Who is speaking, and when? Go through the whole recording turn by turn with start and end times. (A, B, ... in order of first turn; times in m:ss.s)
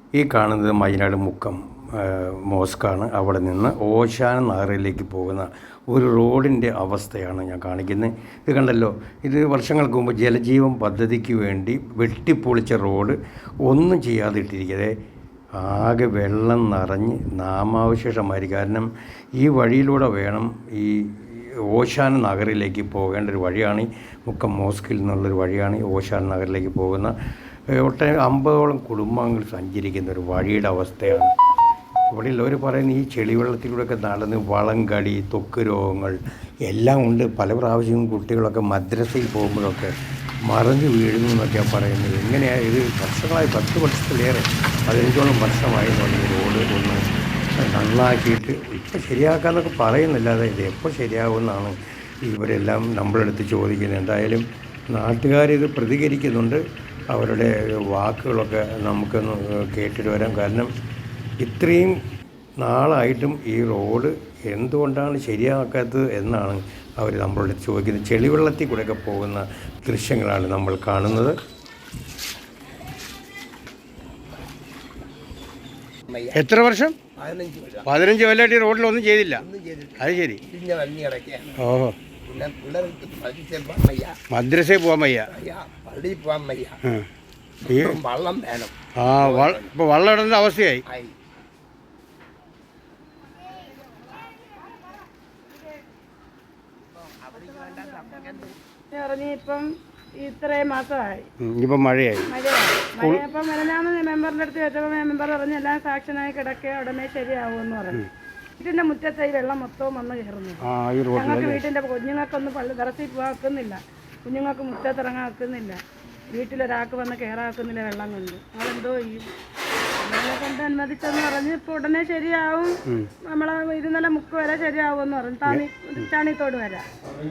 0:00.2-0:14.9 A
0:15.6-0:27.2 A
0:27.7-0:31.3 A
0:32.1-0:39.9 A
0:40.5-0:47.0 A
0:47.6-1:00.7 A
1:01.4-1:02.0 A
1:02.6-1:11.4 A
1:16.1-1:16.3 B
1:16.3-1:17.0 A
1:17.2-1:17.9 B
1:17.8-1:19.4 A
1:19.4-1:21.6 B
1:20.0-1:20.4 A
1:21.6-1:21.9 A
1:22.2-1:24.2 B
1:24.3-1:25.3 A
1:25.3-1:26.8 B
1:26.8-1:27.1 A
1:27.6-1:28.0 A
1:27.7-1:29.7 B
1:29.0-1:30.8 A
1:30.9-1:31.1 B
1:37.4-1:41.3 C
1:41.4-1:42.3 A
1:42.2-1:48.0 C
1:43.0-1:43.2 A
1:48.6-1:59.3 C
1:50.6-1:51.6 A
2:00.0-2:06.8 C
2:05.4-2:06.1 A